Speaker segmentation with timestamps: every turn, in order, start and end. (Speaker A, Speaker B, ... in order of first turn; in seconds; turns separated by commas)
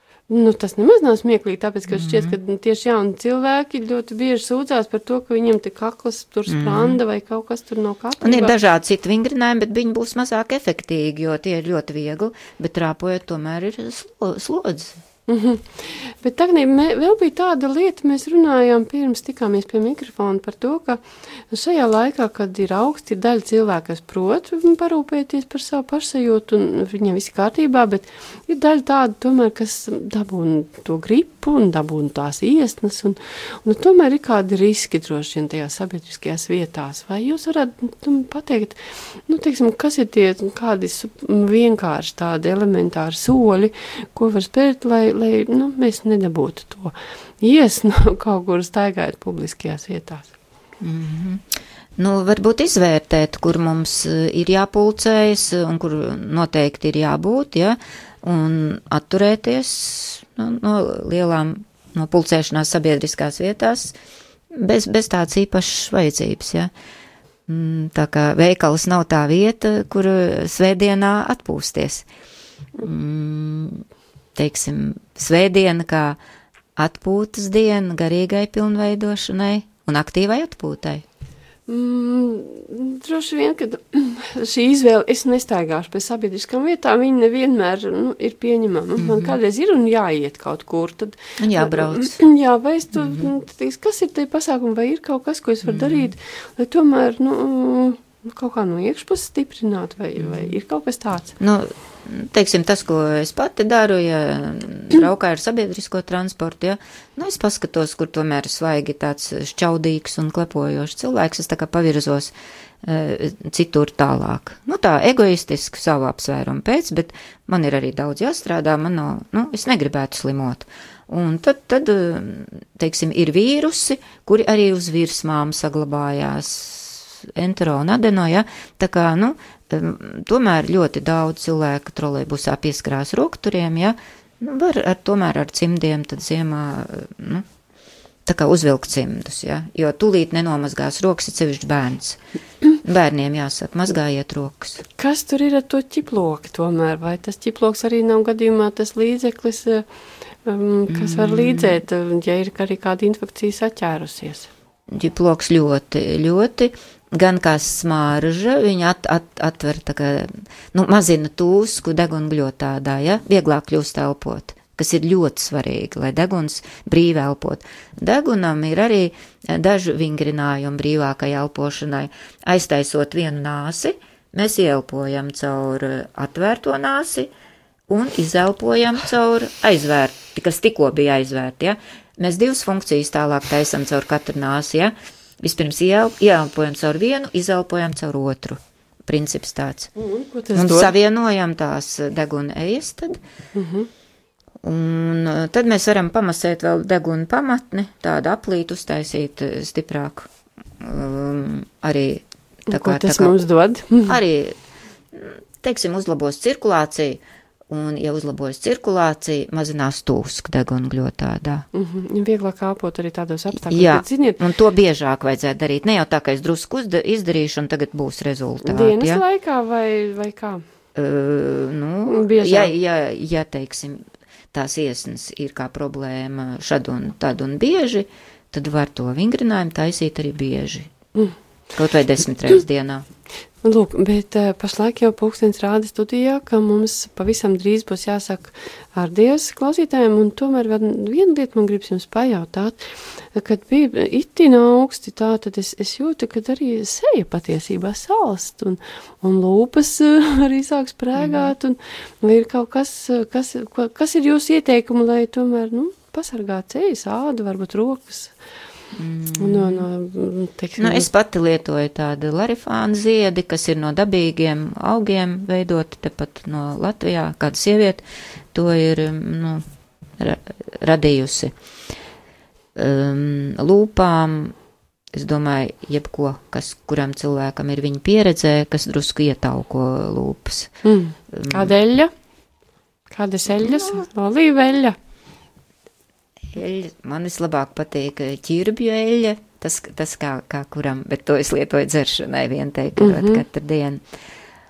Speaker A: 0.3-8.6, Speaker B: 1.9-2.4, Speaker B: 6.5-7.0, Speaker B: 8.2-15.0, Speaker A: 15.3-50.3, Speaker B: 50.8-51.4, Speaker B: 52.0-63.9, Speaker B: 64.5-66.7, Speaker B: 67.5-72.0, Speaker B: 72.8-73.8, Speaker B: 74.3-76.2, Speaker B: 76.8-81.0, Speaker A: 81.7-101.3, Speaker B: 89.0-89.4, Speaker B: 91.4-92.2, Speaker B: 92.9-93.3, Speaker B: 95.6-96.1, Speaker B: 100.2-100.5, Speaker B: 101.4-137.4, Speaker B: 138.2-142.2, Speaker B: 142.8-144.8, Speaker A: 145.0-149.8, Speaker A: 150.4-154.5, Speaker B: 150.9-151.8, Speaker B: 154.9-177.3, Speaker B: 177.9-189.9, Speaker A: 189.9-190.9, Speaker B: 190.5-193.2, Speaker A: 193.5-193.9, Speaker B: 194.6-203.3, Speaker A: 202.7-204.2, Speaker B: 204.1-204.6, Speaker B: 205.1-211.7, Speaker A: 211.7-214.4, Speaker B: 213.6-219.2, Speaker A: 218.6-220.6, Speaker B: 220.9-230.9, Speaker A: 222.1-222.7, Speaker B: 231.7-233.1, Speaker A: 233.6-258.4, Speaker B: 251.2-251.5, Speaker B: 259.0-259.9, Speaker A: 259.4-261.1, Speaker B: 260.8-269.6, Speaker B: 270.2-271.5, Speaker B: 272.7-274.5, Speaker B: 275.1-280.7, Speaker A: 280.8-282.1, Speaker B: 281.3-281.7, Speaker A: 283.1-284.9, Speaker B: 283.6-284.0, Speaker B: 286.5-294.0, Speaker A: 293.0-293.4